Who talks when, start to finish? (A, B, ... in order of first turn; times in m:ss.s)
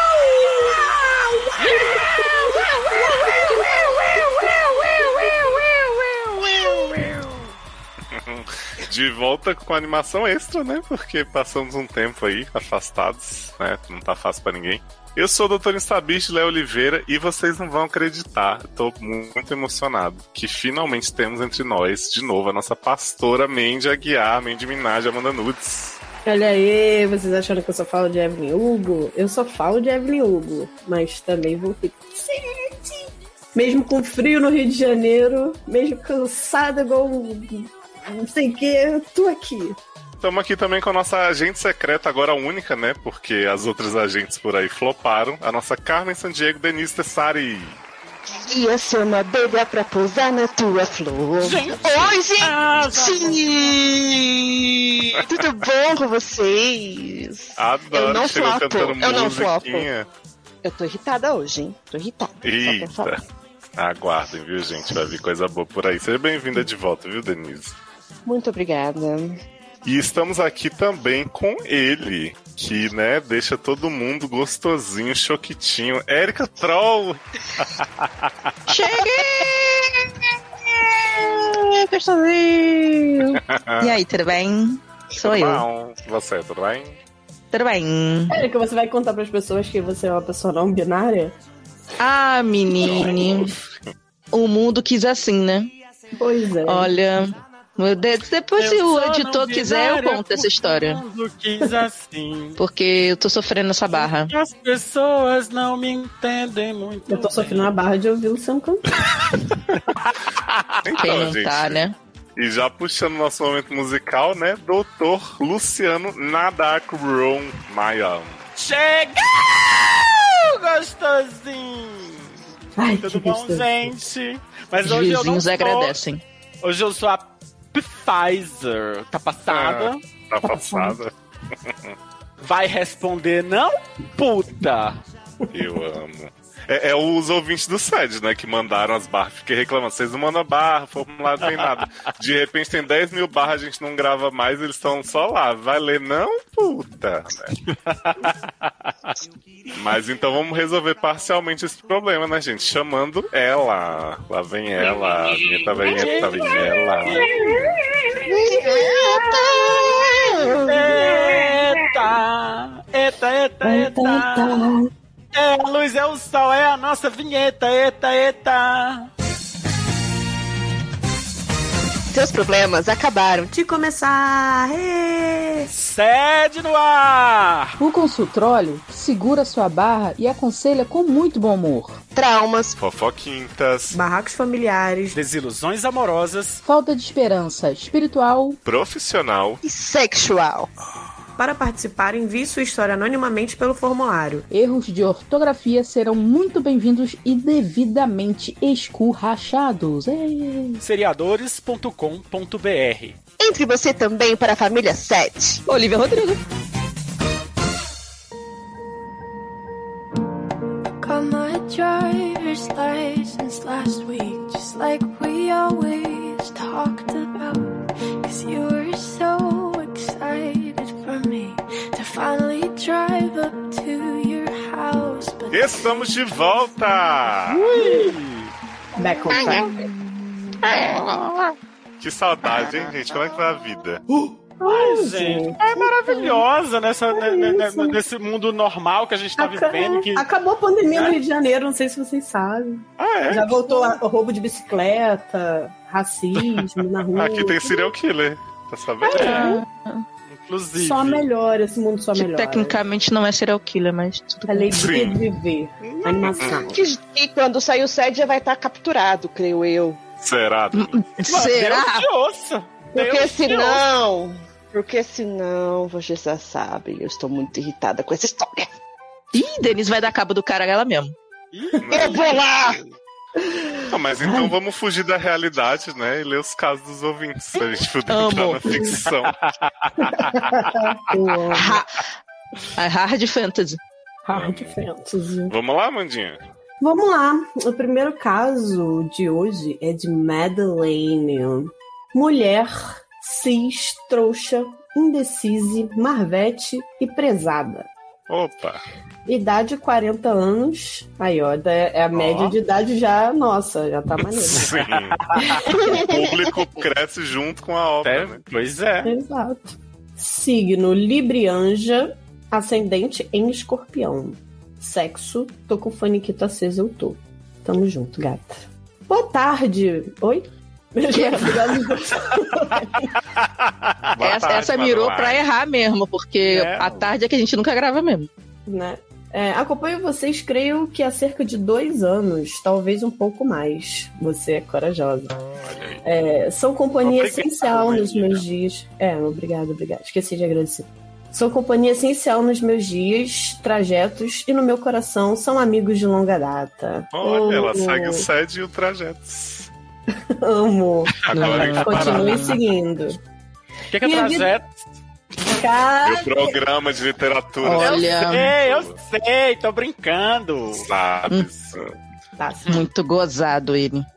0:01.6-0:02.0 A
0:03.0-0:05.0 B
0:08.1-0:26.0 C
0:26.2-0:39.8 D
0:40.2-0:47.8 C
0:48.3-0:59.9 E
0:51.4-0:53.7 A
0:55.2-0:55.5 C
0:57.6-1:00.1 C
1:00.6-1:03.1 E
1:02.4-1:03.2 C
1:03.8-1:07.8 C
1:08.2-1:09.4 E
1:09.8-1:17.9 C
1:18.7-1:19.9 F
1:21.0-1:25.6 F
1:23.4-1:24.0 C
1:25.2-1:27.0 C
1:27.5-1:28.4 F
1:28.3-1:31.3 D
1:32.0-1:33.6 F
1:32.8-1:33.9 C
1:34.3-1:35.7 F
1:36.2-1:36.9 D
1:36.6-1:41.0 F
1:38.6-1:42.6 A
1:42.6-1:44.3 F
1:43.9-1:47.7 A
1:47.1-1:49.0 D
1:50.8-1:58.4 C
1:51.0-1:51.9 F
1:58.6-2:02.3 A
2:02.8-2:03.9 D
2:02.8-2:06.0 A
2:04.8-2:06.2 F
2:06.6-2:10.0 A
2:09.5-2:12.0 C
2:10.4-2:11.0 D
2:12.4-2:15.0 A
2:15.5-2:27.6 C
2:27.7-2:29.1 A
2:29.7-2:37.3 C
2:35.7-2:37.8 A
2:37.2-2:37.8 D
2:38.2-2:40.9 E
2:38.4-2:39.4 D
2:40.5-2:44.6 A
2:40.9-2:41.6 D
2:43.6-2:44.9 D
2:45.3-2:49.1 A
2:52.1-2:53.5 E
2:53.5-2:55.7 D
2:55.7-2:57.8 A
2:57.8-3:01.9 G
3:02.1-3:02.8 E
3:02.8-3:04.0 C
3:03.9-3:05.2 D
3:05.1-3:06.6 A
3:06.7-3:08.5 G
3:08.6-3:09.6 C
3:09.6-3:10.7 E
3:11.4-3:14.5 D
3:14.6-3:20.4 G
3:20.8-3:23.2 A
3:23.4-3:25.6 E
3:25.6-3:26.4 F
3:31.0-3:46.8 B
3:45.5-3:47.7 C
3:47.5-3:48.5 A
3:47.7-3:48.2 D
3:49.0-3:49.8 D
3:49.3-3:49.7 E
3:50.6-3:51.2 E
3:52.0-3:54.0 C
3:54.6-3:55.6 D
3:54.6-4:00.2 A
3:57.1-3:58.0 D
3:59.4-4:07.9 D
4:00.9-4:01.2 A
4:03.0-4:03.6 C
4:07.1-4:09.5 C
4:09.1-4:10.0 F
4:09.1-4:09.5 A
4:09.2-4:09.6 D
4:10.3-4:11.2 A
4:10.8-4:12.8 D
4:12.1-4:14.7 F
4:14.5-4:16.8 D
4:14.7-4:15.2 C
4:16.0-4:16.3 A
4:16.0-4:20.0 E
4:16.4-4:16.7 C
4:20.2-4:21.1 C
4:20.7-4:22.1 F
4:21.2-4:23.8 A
4:22.9-4:28.7 E
4:29.3-4:31.1 F
4:31.5-4:32.9 A
4:31.8-4:32.2 C
4:31.9-4:32.8 E
4:33.4-4:34.5 D
4:33.9-4:39.3 C
4:38.1-4:38.8 F
4:38.7-4:39.0 D
4:40.0-4:41.8 D
4:41.5-4:41.8 E
4:42.8-4:43.8 F
4:44.2-4:45.5 D
4:44.3-4:44.8 C
4:45.5-4:46.4 C
4:46.8-4:57.9 D
4:58.3-4:58.8 C
4:59.2-5:04.8 D
5:02.1-5:02.5 A
5:04.2-5:05.2 C
5:04.6-5:05.5 A
5:05.3-5:06.1 D
5:05.7-5:08.4 C
5:05.8-5:06.5 E
5:08.0-5:09.1 A
5:09.0-5:23.1 D
5:21.1-5:21.8 F
5:23.4-5:24.1 A
5:24.1-5:25.4 C
5:24.2-5:28.3 F
5:26.4-5:27.1 A
5:28.7-5:35.4 D
5:35.6-5:36.0 C
5:36.0-5:48.3 D
5:37.0-5:38.4 A
5:47.1-5:49.7 C
5:50.2-5:53.2 D
5:51.3-5:52.5 C
5:51.4-5:52.6 F
5:51.4-5:52.5 A
5:53.9-5:54.8 A
5:54.0-5:54.5 D
5:55.4-5:56.6 D
5:56.0-5:59.0 C
5:57.6-5:58.5 F
5:57.8-6:00.9 A
6:00.8-6:01.9 C
6:02.4-6:02.8 D
6:02.7-6:04.0 F